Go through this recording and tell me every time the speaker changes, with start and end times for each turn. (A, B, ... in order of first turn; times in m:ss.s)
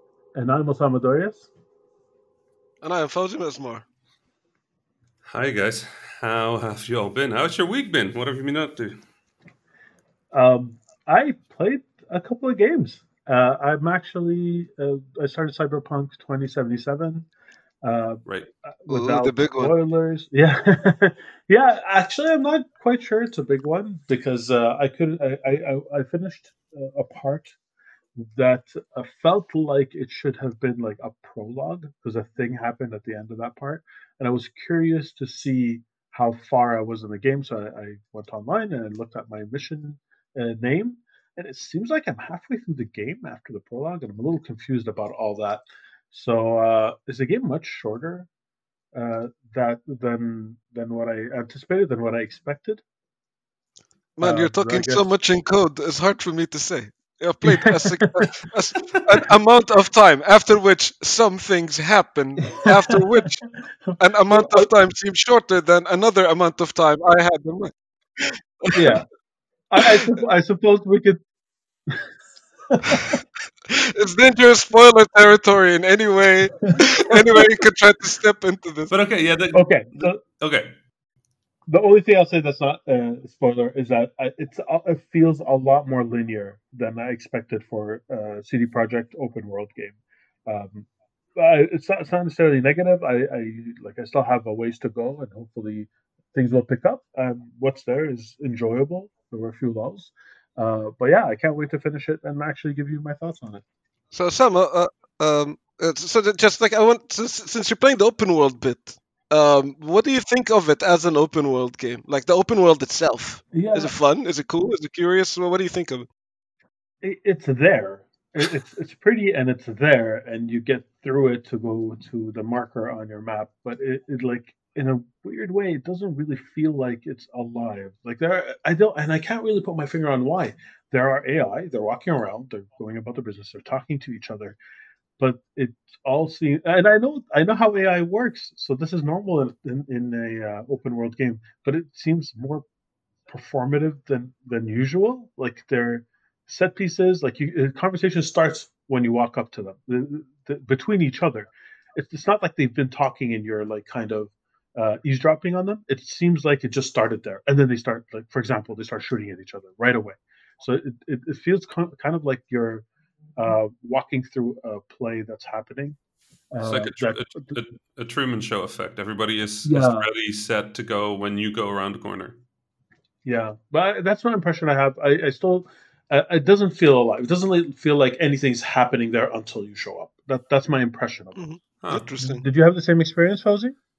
0:00.3-0:01.5 A
0:02.8-0:03.8 B
0:05.3-0:09.0 C
0:10.3-0:17.3 A
0:17.8-0:27.5 A
0:18.9-0:19.7 B
0:28.2-0:48.3 A
0:48.9-0:52.8 A
0:54.2-1:03.4 B
0:54.2-0:55.0 A
0:57.4-0:58.2 A
1:03.9-1:04.7 A
1:04.0-1:09.0 B
1:08.7-1:09.0 A
1:09.7-1:11.2 A
1:09.8-1:10.1 B
1:12.7-1:13.2 A
1:13.7-1:18.9 B
1:18.9-1:20.7 C
1:19.5-1:20.2 A
1:21.7-1:43.6 A
1:44.1-1:56.1 B
1:53.5-1:53.9 A
1:57.0-2:14.6 A
2:15.2-2:22.6 A
2:23.3-2:42.8 A
2:43.4-2:46.0 A
2:46.5-2:47.5 A
2:46.6-2:52.4 C
2:49.6-2:50.1 A
2:53.2-3:01.4 A
3:01.4-3:02.4 B
3:02.2-3:03.7 A